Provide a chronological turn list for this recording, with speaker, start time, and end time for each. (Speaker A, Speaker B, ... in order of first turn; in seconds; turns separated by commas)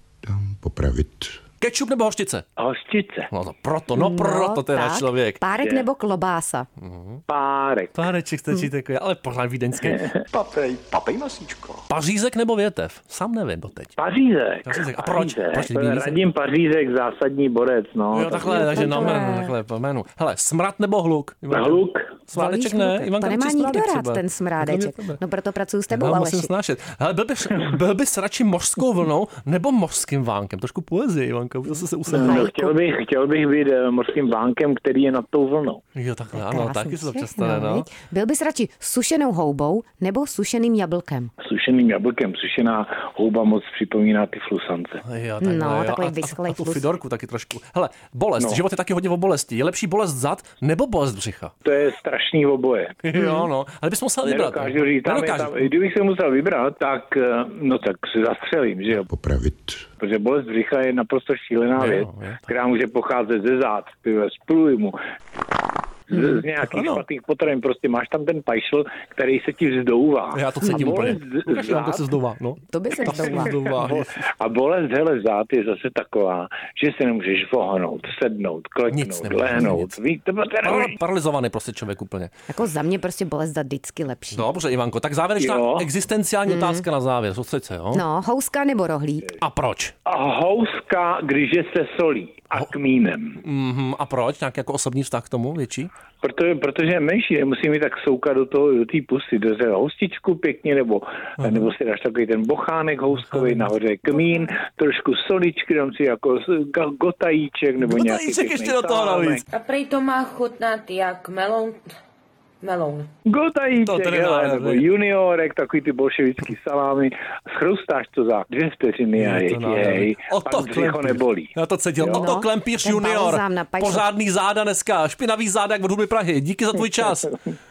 Speaker A: 0.2-1.4, Speaker B: 1.6-2.4, Speaker C: 2.6-3.3, Speaker B: 3.3-5.4, Speaker D: 3.9-6.7, Speaker C: 5.6-5.9, Speaker B: 6.8-7.2, Speaker C: 7.3-8.0, Speaker B: 7.9-10.1, Speaker A: 10.5-11.7, Speaker B: 11.9-13.9, Speaker C: 14.0-19.2, Speaker B: 14.6-16.2, Speaker B: 18.1-25.2, Speaker D: 18.2-19.5, Speaker C: 21.5-22.1, Speaker D: 22.3-26.5, Speaker B: 25.9-32.5, Speaker D: 32.1-32.7, Speaker C: 32.1-35.8, Speaker B: 35.9-37.9, Speaker D: 36.4-41.3, Speaker C: 41.4-45.0, Speaker B: 45.0-51.5, Speaker D: 45.4-46.9, Speaker C: 51.6-53.0, Speaker B: 53.0-55.7, Speaker D: 53.1-53.5, Speaker C: 54.2-59.0, Speaker A: 59.1-59.8, Speaker C: 60.0-65.0, Speaker B: 61.8-62.5, Speaker C: 66.1-72.0, Speaker B: 66.7-67.0, Speaker B: 70.3-74.2, Speaker D: 70.6-71.2, Speaker D: 72.7-73.7, Speaker C: 73.0-81.0, Speaker B: 78.9-80.0, Speaker B: 80.6-82.3, Speaker D: 82.5-84.5, Speaker B: 84.3-88.0, Speaker C: 85.4-85.9, Speaker D: 86.5-86.8, Speaker D: 87.9-89.3, Speaker B: 89.4-89.9, Speaker C: 90.0-93.4, Speaker B: 93.4-95.9, Speaker C: 96.2-109.4, Speaker B: 101.4-101.7, Speaker B: 103.1-103.7, Speaker B: 107.8-109.4, Speaker E: 109.5-111.8, Speaker E: 112.6-113.1, Speaker C: 113.2-122.3, Speaker B: 113.8-114.9, Speaker B: 119.2-127.3, Speaker D: 122.1-124.1